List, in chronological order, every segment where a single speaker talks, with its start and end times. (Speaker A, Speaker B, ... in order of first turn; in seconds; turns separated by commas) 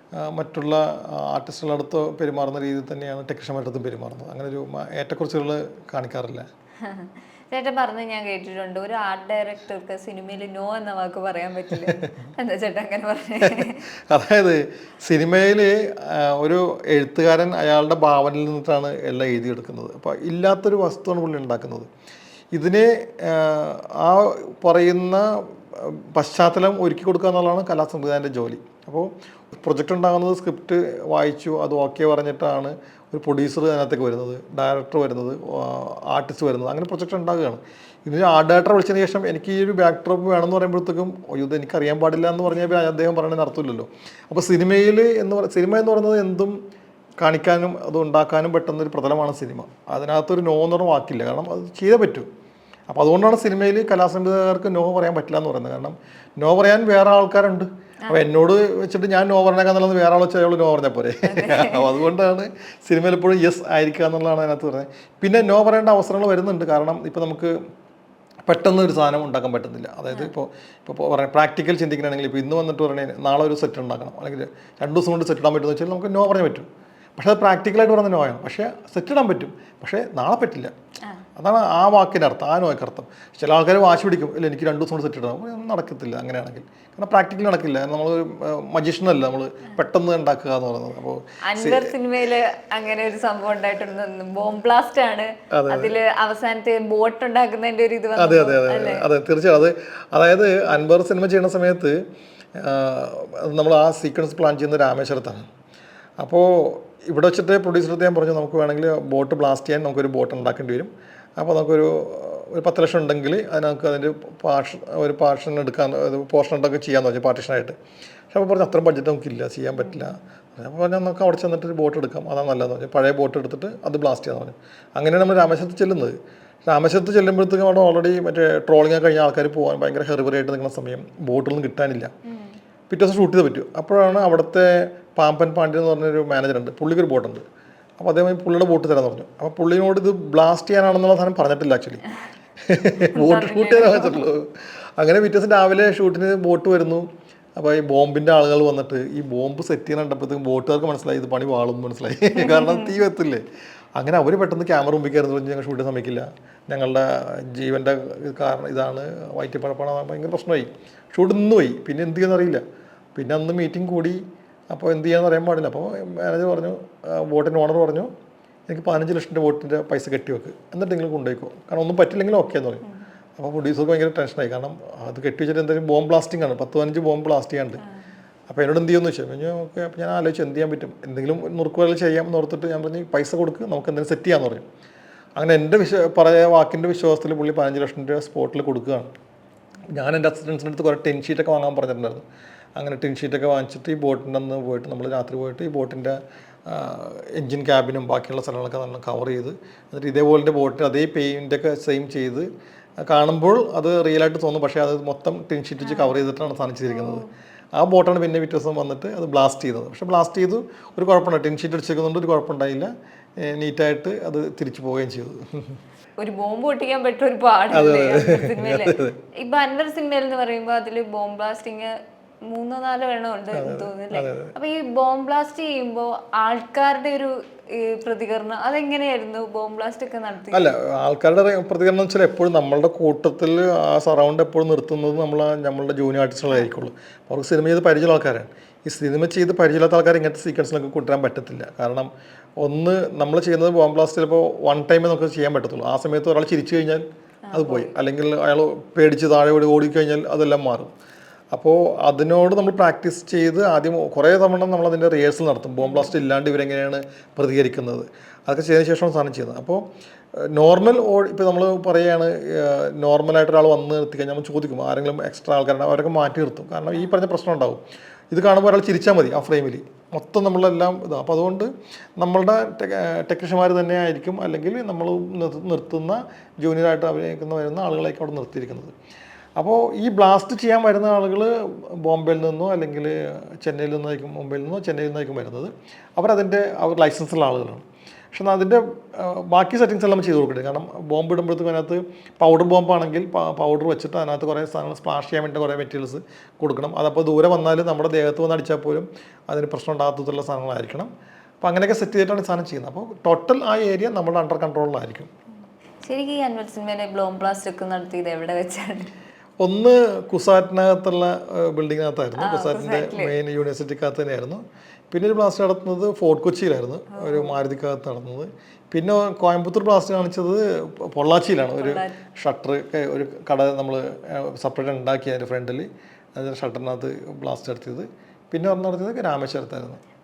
Speaker A: 0.2-6.5, Speaker B: 6.8-13.8, Speaker A: 13.4-21.9, Speaker A: 22.5-46.6, Speaker A: 47.2-52.3, Speaker A: 52.9-67.5, Speaker B: 61.2-62.0, Speaker A: 68.5-80.7, Speaker A: 81.3-92.0, Speaker B: 91.5-99.1, Speaker A: 95.5-96.0, Speaker A: 98.2-102.0, Speaker A: 102.6-105.5, Speaker A: 106.2-117.8, Speaker A: 118.3-126.2, Speaker A: 126.7-132.1, Speaker B: 132.2-132.6, Speaker A: 132.9-137.4, Speaker A: 138.0-142.1, Speaker A: 142.7-144.5, Speaker B: 143.1-144.2, Speaker A: 145.0-153.4, Speaker B: 152.3-153.0, Speaker A: 154.0-162.6, Speaker A: 163.2-168.1, Speaker A: 168.7-172.8, Speaker A: 173.4-177.8, Speaker A: 178.5-184.7, Speaker A: 185.4-189.1, Speaker A: 189.9-192.2, Speaker A: 192.8-202.5, Speaker A: 203.1-207.2, Speaker B: 205.8-206.2, Speaker B: 206.9-207.3, Speaker A: 207.8-215.8, Speaker B: 216.2-230.7, Speaker A: 217.7-219.2, Speaker A: 223.5-224.5, Speaker A: 230.5-242.1, Speaker A: 242.6-250.9, Speaker B: 247.5-247.9, Speaker A: 251.5-259.8, Speaker B: 255.8-256.1, Speaker A: 260.4-278.9, Speaker A: 279.6-301.1, Speaker A: 301.6-305.3, Speaker B: 306.0-309.1, Speaker A: 309.6-330.0, Speaker B: 312.4-313.4, Speaker B: 317.1-317.6, Speaker B: 321.8-322.2